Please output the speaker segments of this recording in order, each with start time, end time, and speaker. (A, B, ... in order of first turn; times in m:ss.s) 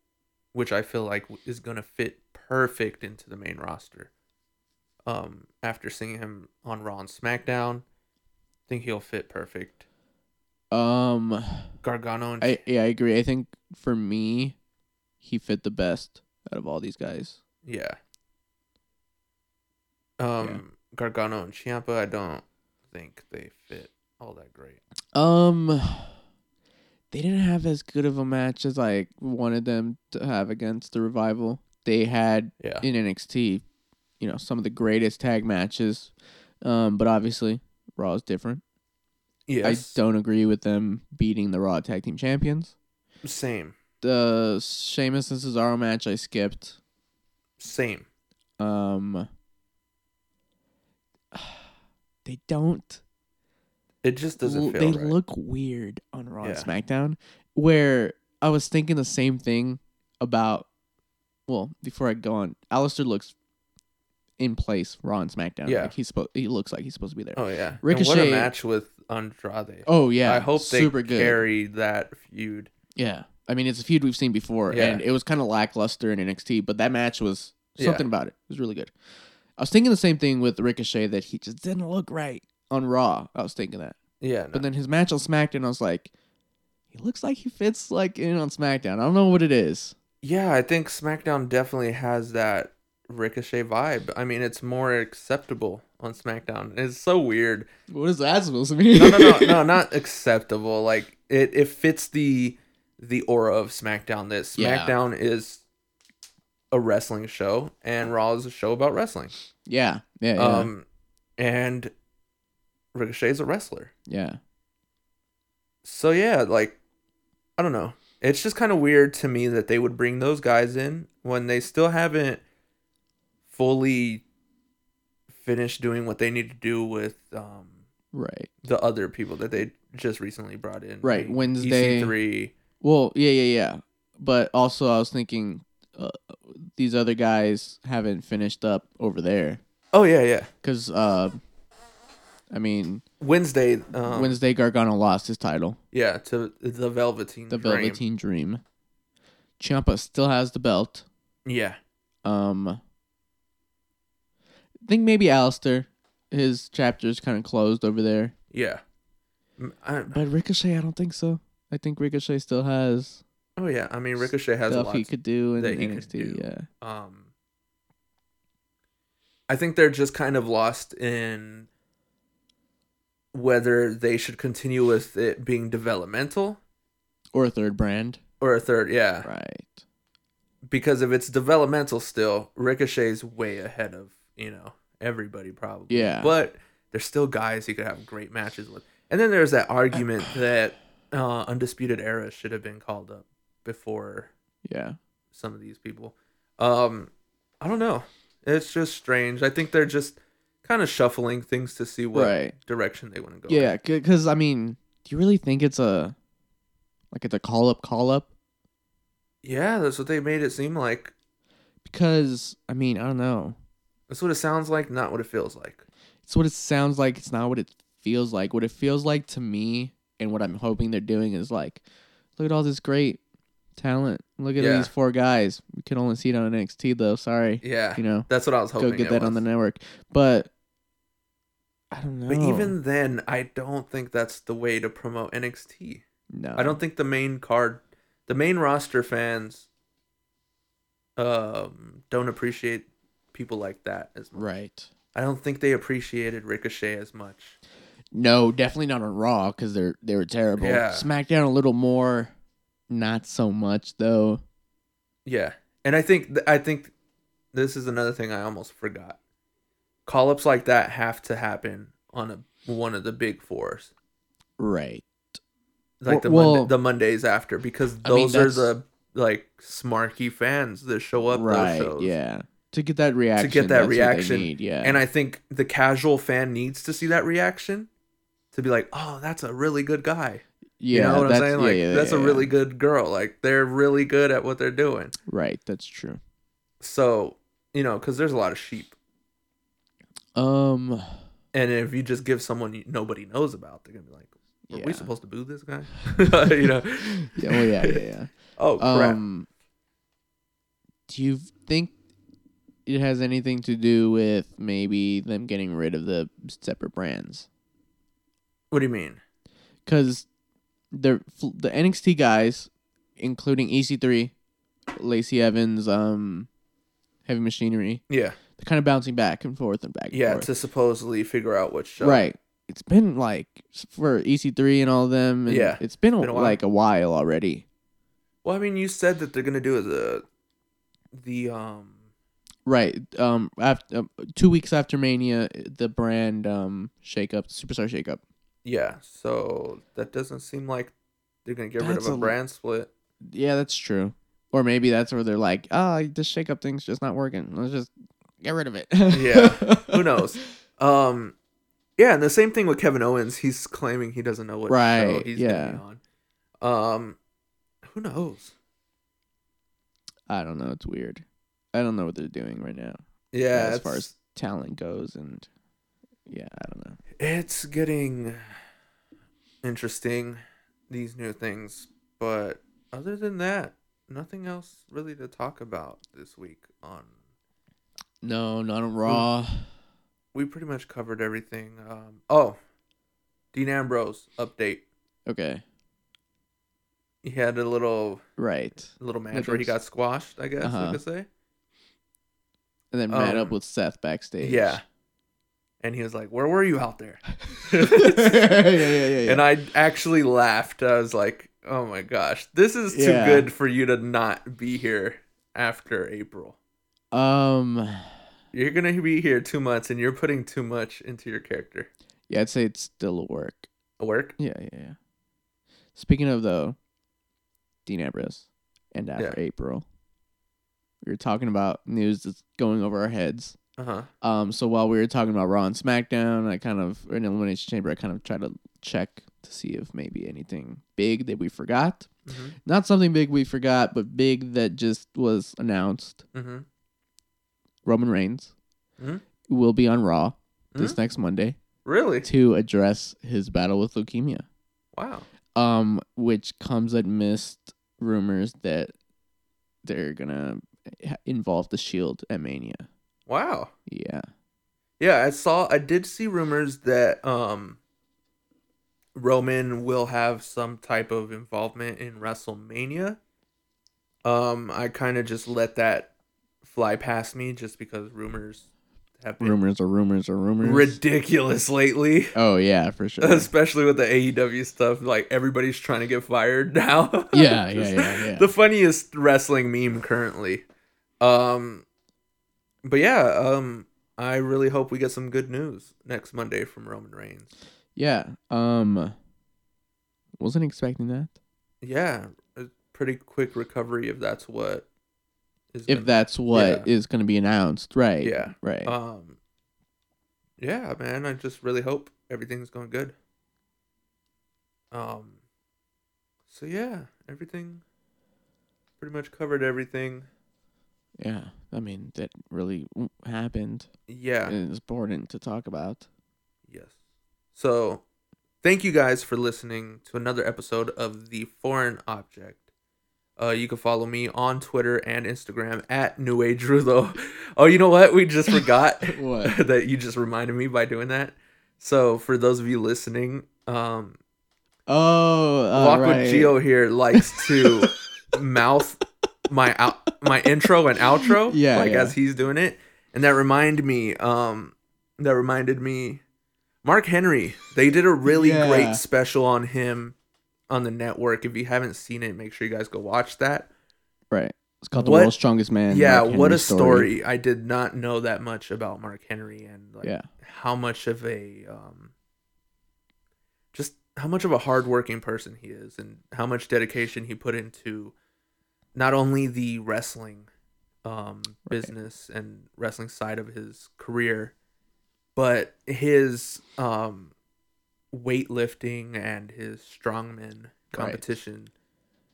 0:00.5-0:04.1 A
0:05.1-0:07.8 A
0:08.7-0:09.8 A
0:10.7-0:11.7 B
0:11.8-0:12.6 A
0:12.4-0:14.6 B
0:15.2-0:17.4 B
0:17.6-0:18.0 A
0:20.2-0:24.8 A
0:25.1-0:26.1 B
0:27.1-0:33.6 B
0:32.6-0:32.8 A
0:34.2-0:36.1 B
0:36.6-0:38.6 B
0:39.5-0:40.0 A
0:39.6-0:42.7 B
0:43.2-0:43.7 A
0:44.0-0:46.8 B
0:47.6-0:48.1 A
0:48.6-0:49.3 B
0:51.3-0:51.6 B
0:52.2-0:53.0 B
0:54.0-0:55.2 A
0:54.4-1:00.7 B
0:56.4-0:56.7 A
1:01.5-1:03.4 B
1:04.4-1:08.5 B
1:05.6-1:05.9 A
1:07.4-1:12.7 A
1:09.9-1:11.4 B
1:13.0-1:18.9 B
1:14.7-1:15.0 A
1:17.8-1:18.1 A
1:19.6-1:24.0 B
1:24.2-1:24.7 A
1:24.5-1:26.1 B
1:26.9-1:30.0 B
1:30.2-1:37.7 A
1:37.9-1:39.6 B
1:38.9-1:45.6 A
1:44.6-1:45.0 B
1:46.7-1:49.3 A
1:49.7-1:50.7 B
1:50.4-1:50.8 A
1:51.4-1:51.9 A
1:52.9-1:53.9 A
1:54.1-1:54.4 B
1:55.8-1:56.8 A
1:57.6-2:02.4 A
2:03.5-2:04.2 A
2:05.3-2:07.8 A
2:08.1-2:08.5 B
2:08.6-2:12.6 A
2:11.0-2:12.1 B
2:12.8-2:19.6 B
2:19.9-2:20.5 A
2:20.6-2:21.4 B
2:22.5-2:23.0 B
2:23.2-2:24.4 A
2:24.0-2:25.8 B
2:25.9-2:28.0 A
2:27.5-2:28.6 B
2:29.6-2:31.0 B
2:31.4-2:31.8 A
2:32.2-2:32.8 B
2:34.8-2:38.3 B
2:38.5-2:38.8 A
2:39.6-2:40.2 A
2:40.1-2:43.2 B
2:43.6-2:47.3 A
2:44.2-2:46.7 B
2:49.5-2:51.7 A
2:53.3-2:56.6 A
2:57.3-2:58.2 B
2:58.4-2:59.3 A
2:59.2-2:59.8 B
3:00.7-3:14.3 A
3:05.9-3:06.3 B
3:14.6-3:15.0 B
3:15.3-3:23.7 A
3:22.1-3:22.5 B
3:23.5-3:26.1 B
3:27.1-3:28.3 B
3:29.4-3:31.1 A
3:31.8-3:33.6 B
3:34.1-3:35.8 A
3:36.3-3:41.8 B
3:42.4-3:43.2 B
3:43.8-3:50.5 B
3:44.6-3:44.9 A
3:47.6-3:49.4 A
3:51.9-3:52.7 B
3:52.3-3:56.0 A
3:56.3-3:56.8 B
3:56.6-3:59.7 A
4:01.2-4:04.4 A
4:04.4-4:04.9 B
4:05.1-4:07.6 A
4:08.1-4:12.3 B
4:10.6-4:11.1 A
4:12.9-4:14.4 B
4:15.3-4:16.9 A
4:17.5-4:19.2 A
4:20.1-4:23.9 A
4:24.6-4:25.4 B
4:26.0-4:32.2 A
4:26.1-4:26.7 B
4:28.0-4:28.7 B
4:31.3-4:35.0 B
4:33.4-4:37.9 A
4:38.5-4:45.1 A
4:40.8-4:42.5 B
4:45.3-4:46.2 B
4:46.8-4:48.9 A
4:50.4-4:51.2 B
4:51.5-4:58.0 A
4:54.7-4:55.1 B
4:56.3-4:59.5 B
4:58.6-4:59.2 A
5:01.1-5:01.9 B
5:02.9-5:07.5 B
5:08.7-5:09.2 A
5:09.9-5:10.3 B
5:10.9-5:14.3 B
5:14.9-5:16.5 B
5:17.3-5:18.0 B
5:18.1-5:18.4 A
5:18.6-5:20.5 B
5:20.1-5:22.2 A
5:22.0-5:27.6 B
5:25.5-5:26.6 A
5:28.4-5:30.2 A
5:31.2-5:32.0 A
5:32.7-5:38.2 B
5:38.6-5:40.9 A
5:41.4-5:42.9 A
5:41.8-5:42.4 B
5:43.2-5:50.4 B
5:49.1-5:51.4 A
5:52.0-5:56.0 A
5:54.7-5:55.8 B
5:56.6-5:57.2 A
5:57.8-5:58.5 A
6:00.3-6:03.0 B
6:03.3-6:04.1 A
6:03.5-6:05.5 B
6:06.3-6:07.0 B
6:07.2-6:08.4 A
6:09.6-6:17.1 A
6:18.2-6:19.7 B
6:20.3-6:22.6 A
6:23.5-6:24.8 A
6:25.3-6:25.6 B
6:27.2-6:28.2 A
6:28.4-6:29.7 B
6:28.9-6:31.3 A
6:30.6-6:31.0 B
6:32.9-6:34.8 B
6:33.1-6:33.6 A
6:34.4-6:34.8 A
6:35.8-6:46.6 A
6:37.5-6:39.4 B
6:42.9-6:43.5 B
6:47.1-6:48.0 B
6:48.5-6:51.9 A
6:52.3-6:53.7 B
6:54.0-6:54.4 A
6:54.4-6:55.0 B
6:56.0-6:56.8 B
6:57.9-6:59.8 B
7:01.0-7:03.6 B
7:03.8-7:04.1 A
7:04.2-7:12.1 B
7:12.3-7:12.6 A
7:12.6-7:16.2 B
7:16.3-7:16.6 A
7:17.8-7:18.5 B
7:19.0-7:19.2 A
7:19.5-7:21.6 B
7:21.8-7:22.3 A
7:22.2-7:24.4 B
7:25.0-7:25.3 A
7:25.6-7:28.9 B
7:29.8-7:32.9 B
7:33.3-7:33.7 A
7:33.9-7:34.3 B
7:35.0-7:37.8 A
7:39.1-7:43.2 A
7:44.2-7:46.1 A
7:46.6-7:48.7 A
7:49.2-7:49.6 A
7:49.4-7:51.0 B
7:50.6-7:52.4 A
7:52.4-7:53.5 B
7:53.2-8:00.6 A
7:57.3-7:58.5 B
8:01.2-8:01.8 A
8:02.8-8:07.5 A
8:08.0-8:09.1 B
8:10.4-8:11.3 B
8:11.8-8:14.9 A
8:15.7-8:16.9 A
8:15.9-8:18.9 B
8:18.2-8:19.4 A
8:20.6-8:23.1 A
8:24.9-8:25.4 A
8:26.5-8:27.8 A
8:29.0-8:30.3 A
8:31.2-8:33.9 B
8:34.1-8:34.6 A
8:34.5-8:36.0 B
8:36.7-8:36.9 A
8:37.5-8:38.0 A
8:38.6-8:42.6 A
8:43.4-8:54.2 A
8:48.5-8:49.6 B
8:54.9-8:56.5 B
8:55.7-9:06.2 A
8:57.2-8:57.7 B
9:01.2-9:02.1 B
9:06.8-9:10.1 A
9:08.2-9:09.0 B
9:10.7-9:13.7 A
9:14.3-9:17.1 B
9:15.0-9:15.3 A
9:15.9-9:22.1 A
9:23.7-9:28.1 A
9:29.0-9:30.5 A
9:31.0-9:34.5 A
9:31.7-9:31.9 B
9:35.4-9:37.3 A
9:38.1-9:41.7 A
9:40.9-9:41.2 B